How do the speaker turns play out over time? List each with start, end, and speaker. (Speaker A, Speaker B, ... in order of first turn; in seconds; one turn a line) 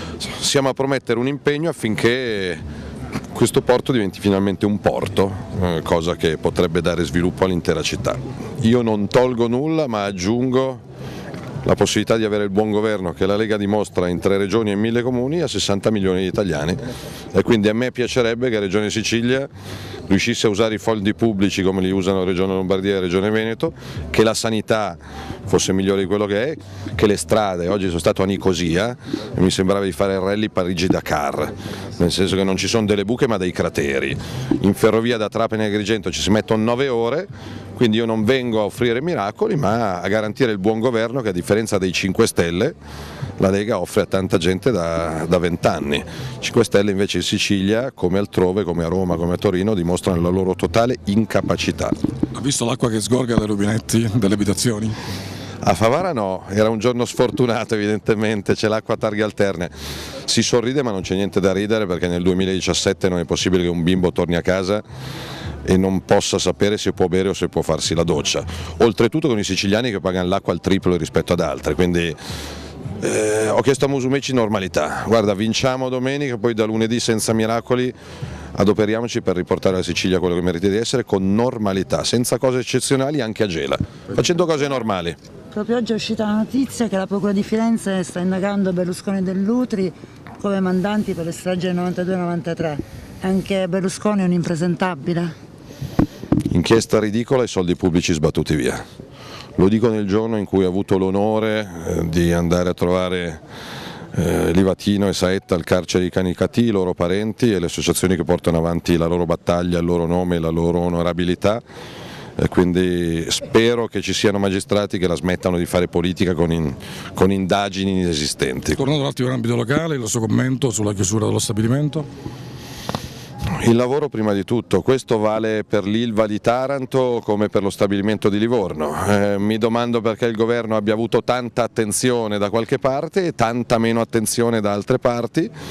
Speaker A: 0.2-2.6
Speaker A: 3.3-10.8
Speaker A: 11.6-16.8
Speaker A: 17.3-19.5
Speaker A: 20.1-42.8
Speaker A: 43.4-52.0
Speaker B: 52.3-54.9
Speaker A: 55.6-59.7
Speaker A: 60.2-64.8
Speaker A: 65.6-72.2
Speaker A: 73.0-77.9
Speaker A: 78.5-85.2
Speaker C: 85.5-95.3
Speaker A: 96.5-98.8
Speaker A: 99.6-103.4
Speaker A: 104.1-111.6
Speaker A: 112.4-118.8
Speaker B: 118.8-122.1
Speaker A: 123.6-135.5